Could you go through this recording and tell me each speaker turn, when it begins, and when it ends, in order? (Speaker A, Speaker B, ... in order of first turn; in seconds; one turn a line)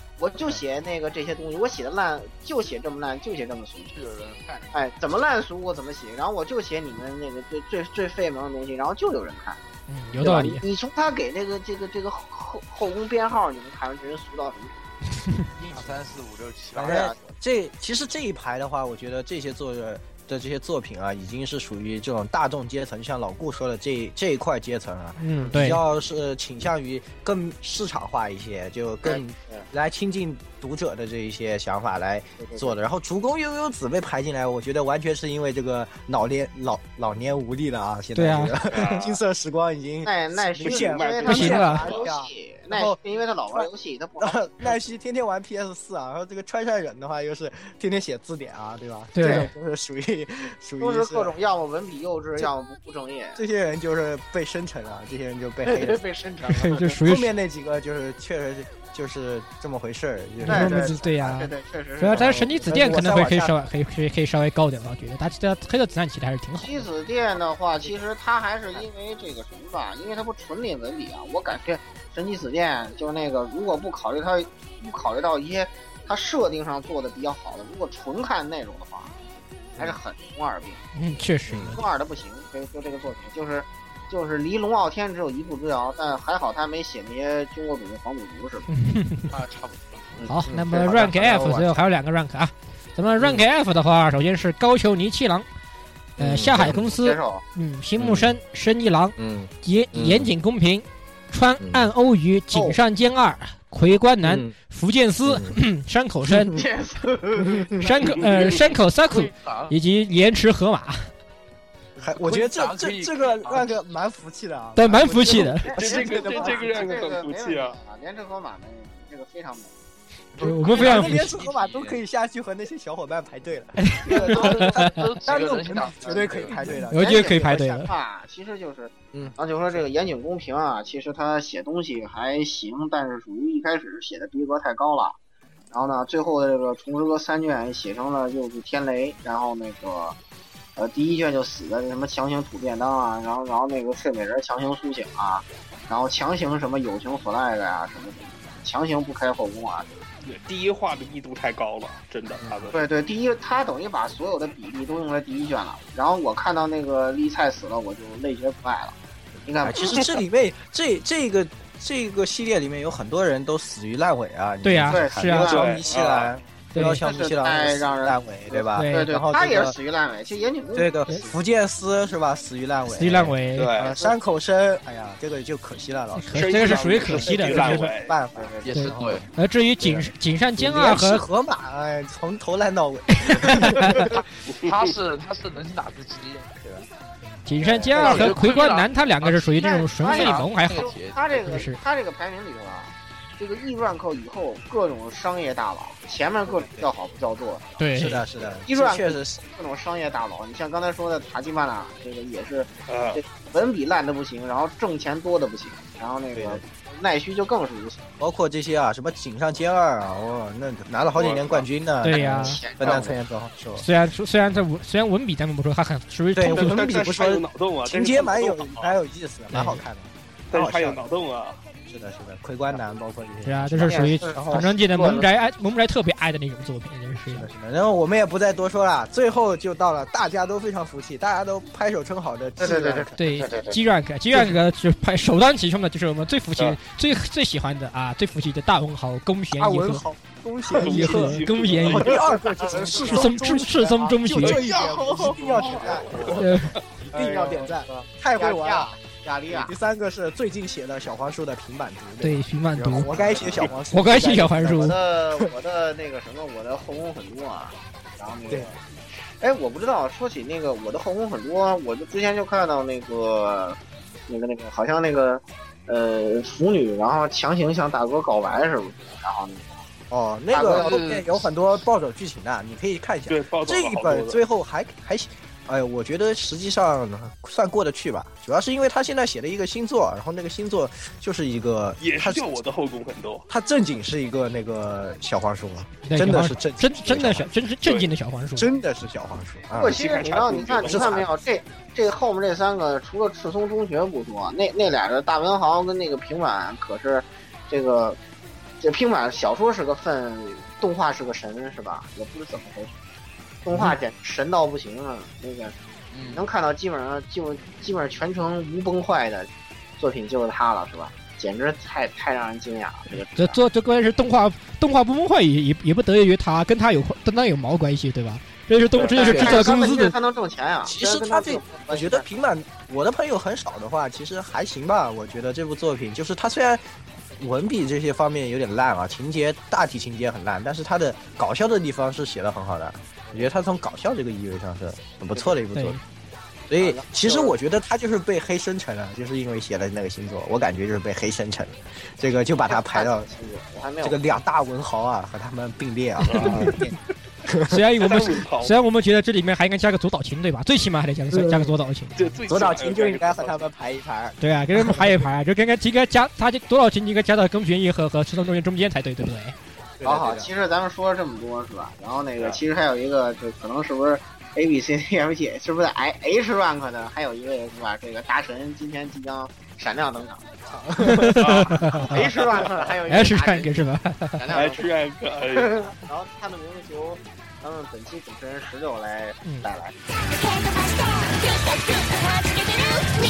Speaker A: 0.2-3.9
Speaker B: 3.9-4.8
Speaker A: 4.7-9.6
Speaker C: 9.9-10.6
Speaker A: 10.2-14.8
Speaker B: 15.6-17.3
Speaker A: 16.8-17.2
Speaker D: 16.8-43.0
Speaker C: 25.2-25.8
Speaker A: 29.0-29.7
Speaker A: 32.4-32.7
Speaker C: 38.1-38.6
Speaker E: 38.7-39.2
Speaker A: 40.0-44.8
Speaker E: 40.6-42.1
Speaker C: 41.3-41.8
Speaker D: 43.5-51.3
Speaker C: 49.1-49.5
Speaker A: 49.2-49.5
Speaker A: 50.8-53.4
Speaker D: 53.4-56.0
Speaker B: 55.7-56.5
Speaker A: 56.1-57.0
Speaker C: 56.5-57.3
Speaker D: 57.0-60.9
Speaker C: 60.4-66.9
Speaker A: 60.5-62.7
Speaker D: 62.1-63.6
Speaker A: 66.6-79.1
Speaker A: 79.8-80.8
Speaker C: 81.0-81.8
Speaker D: 81.5-81.8
Speaker A: 81.7-88.7
Speaker C: 88.7-89.3
Speaker B: 89.3-90.2
Speaker C: 90.3-95.5
Speaker D: 90.5-91.8
Speaker D: 93.2-93.4
Speaker C: 96.2-106.6
Speaker D: 96.2-96.8
Speaker A: 96.6-97.4
Speaker D: 98.0-98.4
Speaker D: 99.2-100.3
Speaker D: 101.6-101.9
Speaker A: 102.5-102.8
Speaker D: 104.2-104.5
Speaker D: 105.3-105.6
Speaker A: 106.5-108.0
Speaker C: 107.8-111.1
Speaker B: 108.0-109.8
Speaker E: 108.1-108.4
Speaker B: 112.0-113.8
Speaker D: 112.0-116.8
Speaker C: 114.8-115.7
Speaker A: 115.6-119.8
Speaker E: 115.7-117.8
Speaker B: 120.3-122.0
Speaker C: 120.4-121.3
Speaker D: 120.7-127.5
Speaker C: 123.8-125.1
Speaker B: 124.1-126.8
Speaker A: 126.6-135.2
Speaker C: 126.9-127.9
Speaker A: 135.7-140.2
Speaker A: 140.8-149.9
Speaker E: 150.2-152.8
Speaker D: 152.4-152.7
Speaker A: 152.7-158.9
Speaker A: 159.5-160.1
Speaker D: 159.6-169.8
Speaker C: 164.6-165.6
Speaker A: 164.9-165.9
Speaker E: 165.5-166.3
Speaker C: 166.7-167.0
Speaker A: 166.9-171.0
Speaker C: 168.7-169.1
Speaker D: 170.8-179.2
Speaker C: 172.9-173.7
Speaker E: 173.6-174.0
Speaker A: 173.9-174.1
Speaker C: 176.2-177.9
Speaker E: 176.3-178.1
Speaker A: 178.3-179.2
Speaker B: 178.6-179.3
Speaker C: 178.7-181.2
Speaker D: 179.8-184.1
Speaker C: 183.2-184.1
Speaker E: 184.5-185.0
Speaker B: 184.6-186.9
Speaker C: 187.4-190.9
Speaker A: 187.6-188.6
Speaker B: 187.9-191.7
Speaker A: 189.5-197.8
Speaker C: 191.5-191.8
Speaker C: 197.8-198.2
Speaker D: 197.9-199.4
Speaker A: 198.7-208.2
Speaker E: 202.9-203.2
Speaker D: 206.3-206.6
Speaker D: 208.2-213.8
Speaker E: 211.1-211.7
Speaker C: 212.0-212.6
Speaker A: 212.1-213.1
Speaker C: 213.8-216.8
Speaker D: 216.3-221.0
Speaker E: 216.5-218.9
Speaker C: 219.5-219.8
Speaker E: 220.5-221.6
Speaker D: 221.9-224.5
Speaker C: 223.4-227.5
Speaker A: 223.8-225.3
Speaker D: 227.3-233.2
Speaker A: 232.6-233.8
Speaker C: 233.2-240.1
Speaker D: 239.6-248.9
Speaker E: 240.8-242.3
Speaker C: 240.8-242.2
Speaker A: 242.6-243.3
Speaker C: 242.9-244.7
Speaker B: 244.8-245.6
Speaker A: 245.0-246.2
Speaker E: 246.0-246.8
Speaker C: 246.3-246.8
Speaker A: 247.1-249.7
Speaker D: 249.5-255.5
Speaker C: 252.2-253.1
Speaker A: 253.1-253.7
Speaker C: 253.9-255.0
Speaker A: 254.7-258.8
Speaker A: 259.4-269.8
Speaker D: 270.1-282.6
Speaker A: 270.5-271.0
Speaker B: 270.7-271.5
Speaker E: 273.3-274.4
Speaker E: 282.0-283.5
Speaker D: 283.5-287.5
Speaker C: 286.0-288.7
Speaker D: 288.6-290.0
Speaker E: 289.8-291.3
Speaker A: 289.8-298.2
Speaker D: 290.8-291.3
Speaker A: 298.8-302.9
Speaker A: 303.6-305.8
Speaker B: 306.1-306.5
Speaker A: 306.3-313.6
Speaker C: 313.3-320.1
Speaker E: 319.0-319.5
Speaker A: 319.1-322.2
Speaker D: 319.4-319.7
Speaker D: 320.8-326.8
Speaker D: 327.4-336.0
Speaker C: 335.8-336.0
Speaker D: 336.7-343.3
Speaker A: 336.8-337.6
Speaker A: 342.7-344.2
Speaker D: 344.0-346.9
Speaker E: 346.3-346.6
Speaker C: 346.4-346.8
Speaker D: 347.4-347.8
Speaker C: 347.7-352.4
Speaker E: 348.0-348.8
Speaker D: 351.3-351.8
Speaker E: 352.2-353.7
Speaker D: 352.5-355.2
Speaker C: 354.4-359.6
Speaker D: 360.0-360.5
Speaker A: 360.0-370.4
Speaker D: 370.7-372.1
Speaker C: 371.0-372.2
Speaker E: 371.4-371.8
Speaker A: 372.0-373.8
Speaker C: 373.1-374.4
Speaker A: 374.4-374.9
Speaker E: 374.5-375.8
Speaker A: 375.5-379.9